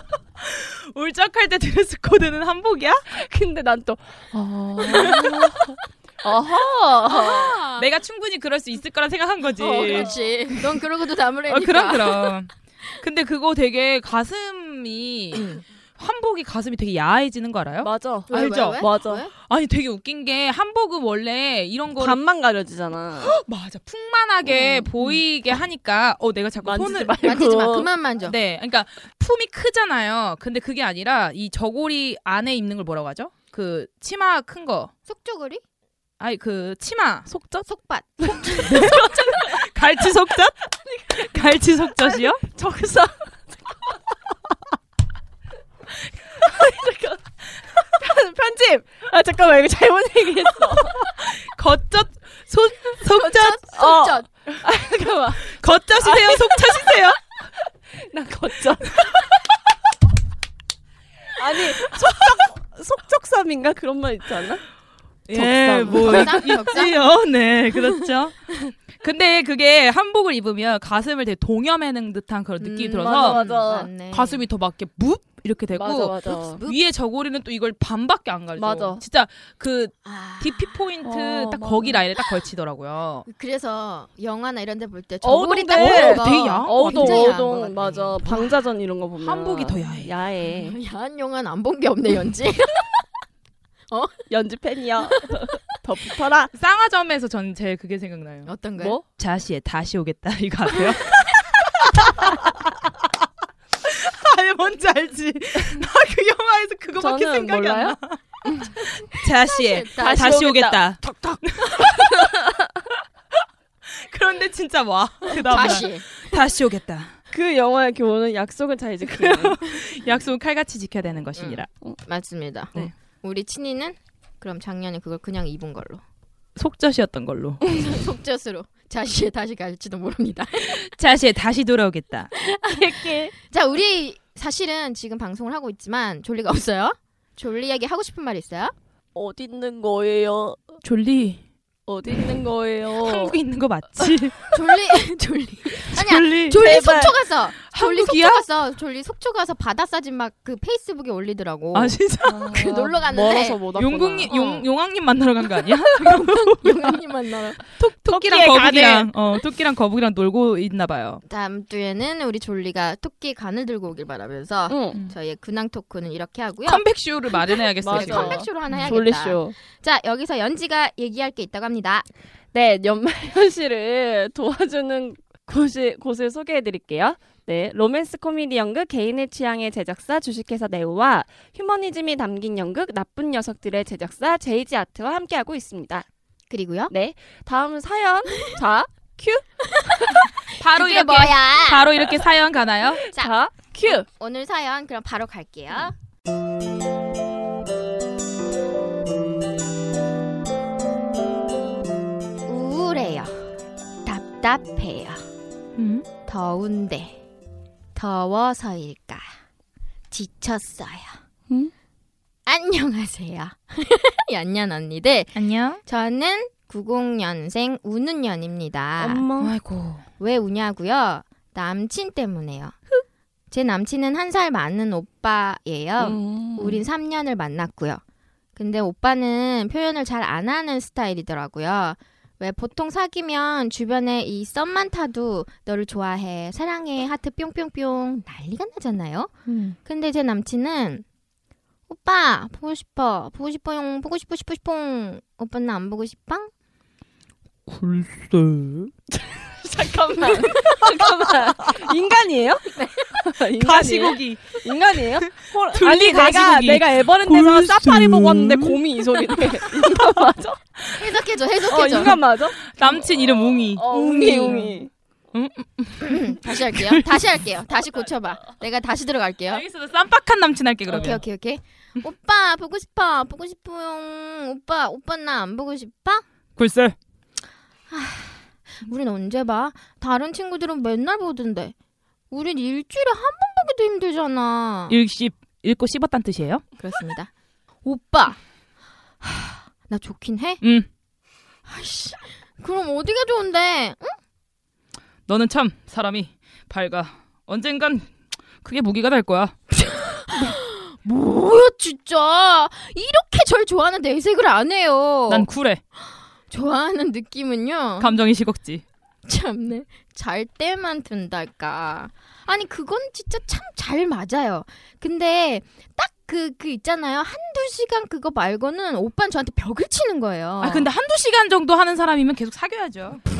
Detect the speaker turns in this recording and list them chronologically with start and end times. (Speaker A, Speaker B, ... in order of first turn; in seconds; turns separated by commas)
Speaker A: 0.4-3.1, Speaker B: 3.1-7.6, Speaker A: 4.8-5.6, Speaker A: 7.1-10.1, Speaker C: 9.6-12.3, Speaker B: 9.6-10.3, Speaker A: 11.5-22.2, Speaker C: 15.3-15.6, Speaker B: 17.8-19.2, Speaker C: 18.3-19.3, Speaker B: 22.0-23.4, Speaker A: 23.2-27.2, Speaker B: 24.4-25.2, Speaker B: 26.6-27.9, Speaker C: 27.2-28.4, Speaker A: 28.2-34.9, Speaker C: 35.1-35.6, Speaker A: 36.2-37.7, Speaker C: 37.6-39.2, Speaker B: 38.4-39.6, Speaker A: 38.6-40.5, Speaker B: 41.0-41.3, Speaker A: 41.1-42.4, Speaker B: 42.0-43.7, Speaker B: 46.4-51.1, Speaker A: 51.0-53.6, Speaker C: 53.2-54.2, Speaker B: 53.7-57.0, Speaker A: 55.5-57.2, Speaker B: 57.9-59.3, Speaker B: 61.4-64.6, Speaker A: 61.9-62.3, Speaker A: 65.3-73.4, Speaker B: 65.3-66.6, Speaker C: 65.8-67.0, Speaker C: 72.6-74.4, Speaker B: 72.9-73.9, Speaker A: 74.1-83.3, Speaker B: 75.7-76.6, Speaker B: 78.6-79.0, Speaker C: 80.0-80.7, Speaker B: 81.0-82.0, Speaker C: 83.3-88.4, Speaker B: 85.2-90.8, Speaker A: 85.7-87.4, Speaker A: 89.2-90.1, Speaker C: 90.5-92.9, Speaker C: 93.9-94.2, Speaker B: 94.3-96.5, Speaker A: 96.5-98.5, Speaker C: 98.5-99.0, Speaker B: 98.8-99.0, Speaker A: 99.1-102.7, Speaker A: 103.8-108.2, Speaker B: 107.0-108.0, Speaker C: 108.5-110.4, Speaker A: 108.8-112.3, Speaker B: 110.0-112.3, Speaker A: 114.0-117.1, Speaker C: 115.3-116.1, Speaker B: 117.3-119.6, Speaker A: 119.0-121.7, Speaker C: 121.4-126.0, Speaker A: 126.6-127.6, Speaker C: 127.8-130.9, Speaker A: 130.6-132.3, Speaker B: 132.6-133.3, Speaker C: 132.6-138.7, Speaker B: 139.2-140.6, Speaker A: 140.8-141.4, Speaker B: 141.9-143.4, Speaker A: 143.0-144.4, Speaker C: 144.5-152.0, Speaker A: 145.8-146.7, Speaker B: 146.6-147.2, Speaker A: 147.7-148.4, Speaker A: 151.7-152.5, Speaker B: 152.3-154.3, Speaker C: 152.5-153.6, Speaker A: 153.8-157.0, Speaker C: 154.3-154.7, Speaker C: 156.0-157.6, Speaker A: 157.7-161.2, Speaker B: 158.1-159.1, Speaker C: 161.2-166.8, Speaker B: 164.7-165.0, Speaker A: 166.7-168.9, Speaker B: 167.8-169.6, Speaker C: 167.8-172.1, Speaker B: 172.5-186.1, Speaker C: 186.5-186.9, Speaker B: 186.9-189.5, Speaker C: 189.9-191.9, Speaker A: 190.6-193.0, Speaker B: 193.1-194.1, Speaker C: 193.8-195.9, Speaker C: 202.5-203.3, Speaker C: 204.1-205.2, Speaker A: 205.8-206.1, Speaker C: 206.3-207.2, Speaker C: 207.9-209.3, Speaker C: 210.1-211.2, Speaker C: 212.5-219.2, Speaker A: 215.3-215.8, Speaker B: 219.0-219.6, Speaker A: 219.4-220.0, Speaker C: 220.2-222.8, Speaker C: 223.5-228.0, Speaker B: 226.0-226.8, Speaker C: 228.6-241.1, Speaker B: 239.5-239.8, Speaker C: 241.9-246.5, Speaker A: 247.7-248.9, Speaker B: 249.1-260.6, Speaker C: 252.8-253.1, Speaker A: 253.6-254.6, Speaker A: 255.4-260.2, Speaker C: 260.9-262.2, Speaker B: 261.7-264.9, Speaker A: 262.6-267.2, Speaker C: 266.0-269.6, Speaker A: 269.5-271.2, Speaker C: 270.9-276.2, Speaker A: 276.6-277.0, Speaker C: 277.9-281.7, Speaker C: 282.3-285.0, Speaker A: 284.9-286.6, Speaker C: 286.8-287.3, Speaker C: 287.8-288.4, Speaker C: 289.2-290.6, Speaker A: 290.6-290.9, Speaker C: 291.7-294.1, Speaker A: 295.3-299.6, Speaker C: 299.7-305.5, Speaker A: 305.3-305.8, Speaker C: 306.5-308.1, Speaker A: 308.0-308.8, Speaker C: 309.3-320.9, Speaker A: 320.6-323.2